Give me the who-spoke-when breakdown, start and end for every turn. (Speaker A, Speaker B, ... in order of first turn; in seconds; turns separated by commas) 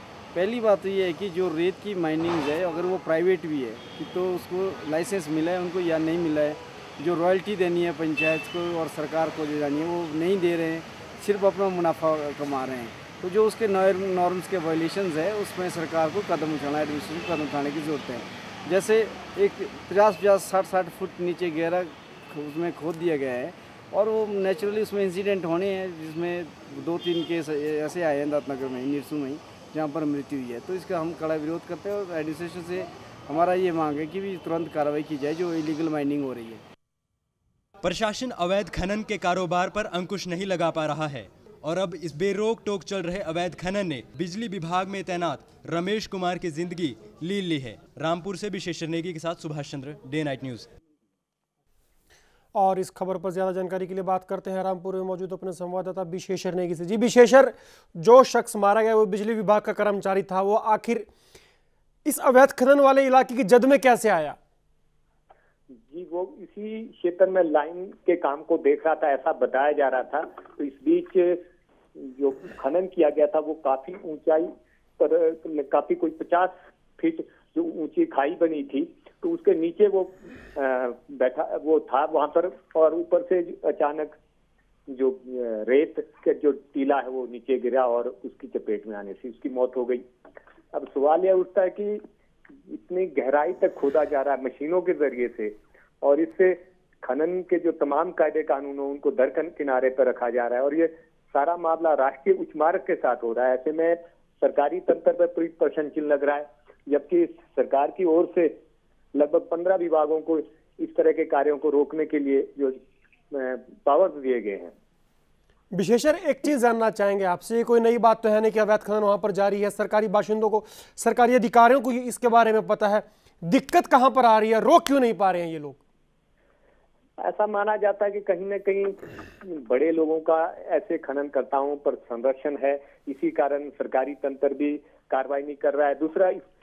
Speaker A: 0.3-36.6, Speaker B: 37.8-50.7, Speaker C: 52.5-61.1, Speaker C: 62.0-64.4, Speaker D: 65.8-71.4, Speaker D: 72.0-84.1, Speaker D: 84.9-90.0, Speaker D: 90.7-92.0, Speaker D: 92.7-108.5, Speaker D: 109.1-112.8, Speaker D: 113.3-114.7, Speaker C: 115.7-125.8, Speaker D: 127.2-136.4